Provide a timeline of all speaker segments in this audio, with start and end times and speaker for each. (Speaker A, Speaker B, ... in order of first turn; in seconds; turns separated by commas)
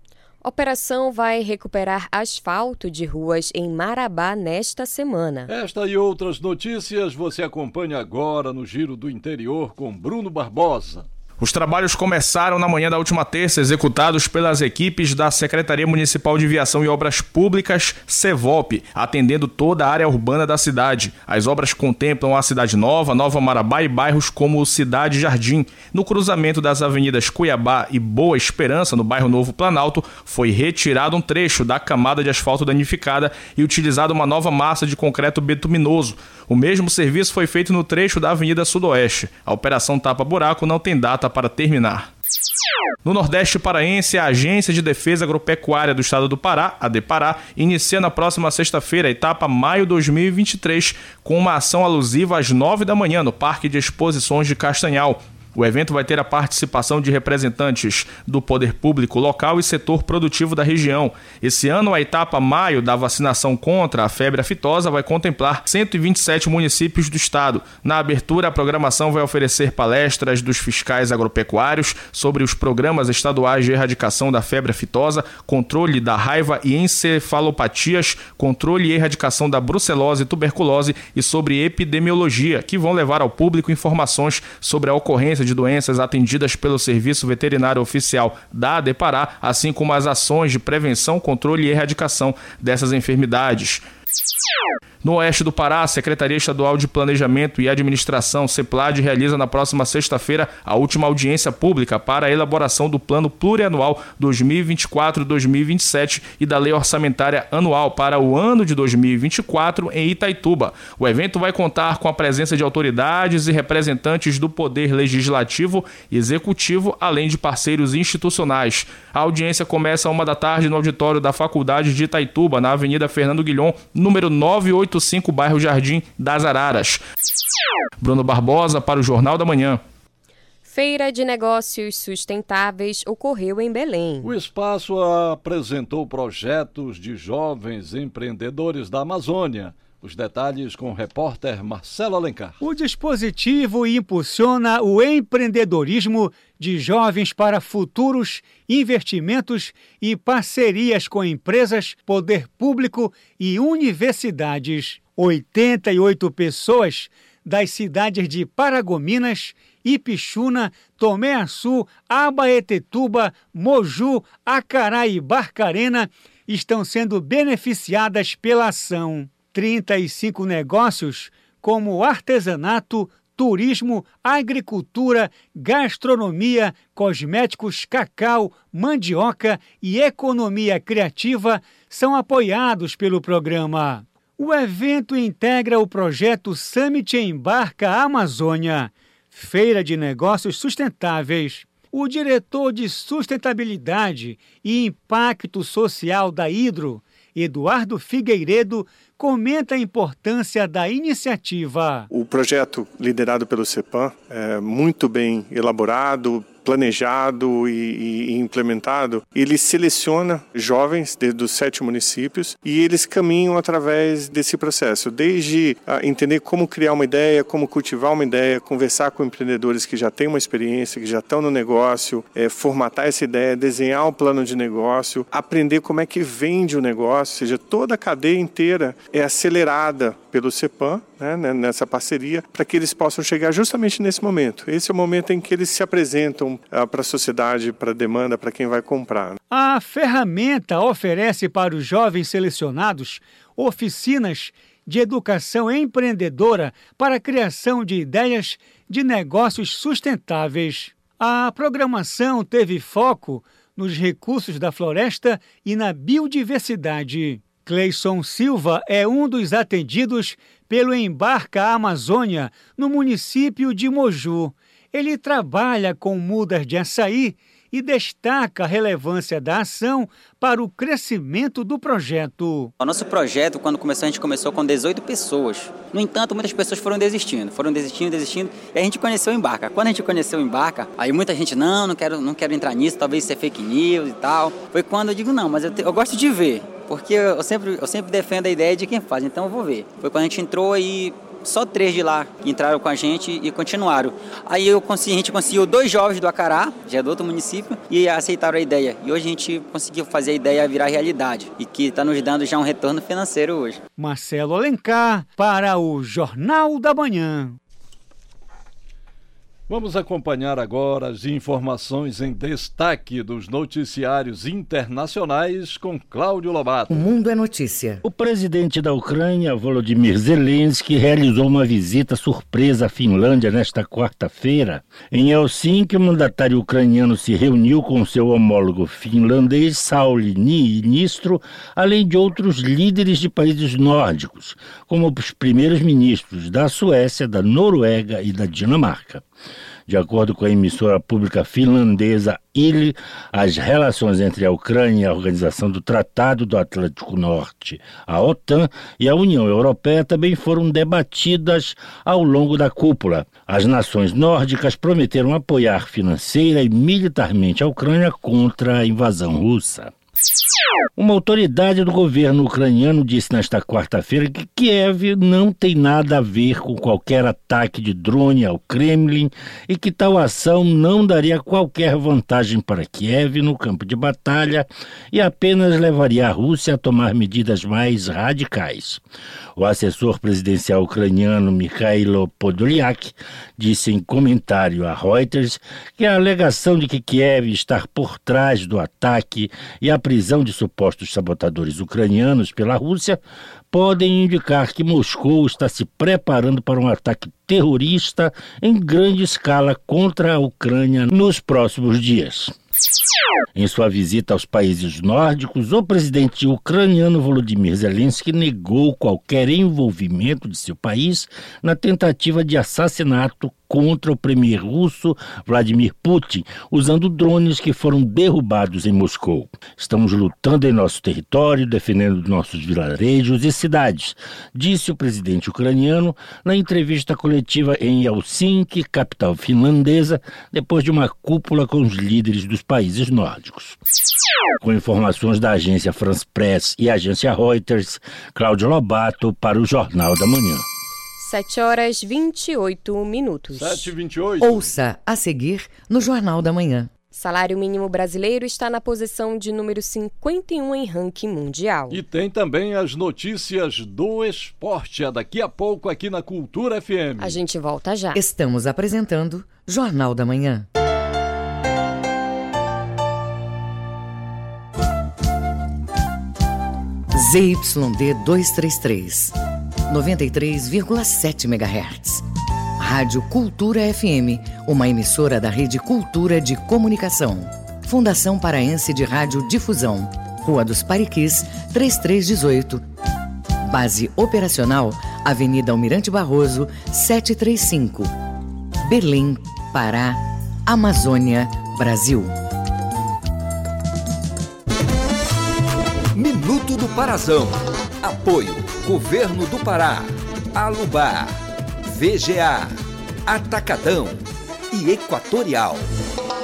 Speaker A: 0.4-5.5, Speaker B: 5.5-11.1, Speaker C: 11.4-42.1, Speaker C: 43.0-93.8, Speaker C: 95.0-127.0, Speaker C: 128.0-129.8, Speaker A: 130.6-134.3, Speaker B: 134.2-142.6, Speaker D: 142.6-202.1, Speaker E: 202.1-239.3, Speaker D: 239.5-272.7, Speaker F: 272.8-303.8, Speaker D: 304.0-307.6, Speaker B: 309.7-317.0, Speaker G: 316.9-318.0, Speaker H: 318.0-339.2, Speaker H: 339.9-359.9, Speaker H: 360.9-379.0, Speaker H: 379.5-402.5, Speaker H: 403.5-433.8, Speaker H: 434.6-440.6, Speaker A: 441.2-443.9, Speaker B: 443.5-444.8, Speaker G: 444.4-446.9, Speaker A: 447.1-452.0, Speaker B: 451.9-457.4, Speaker A: 457.2-458.2, Speaker G: 458.1-460.6, Speaker G: 467.1-469.3, Speaker G: 469.9-472.2, Speaker G: 472.8-482.8, Speaker G: 483.6-488.1, Speaker G: 488.8-492.3, Speaker I: 496.1-501.3, Speaker I: 501.9-502.7, Speaker I: 503.2-504.2, Speaker I: 504.7-505.8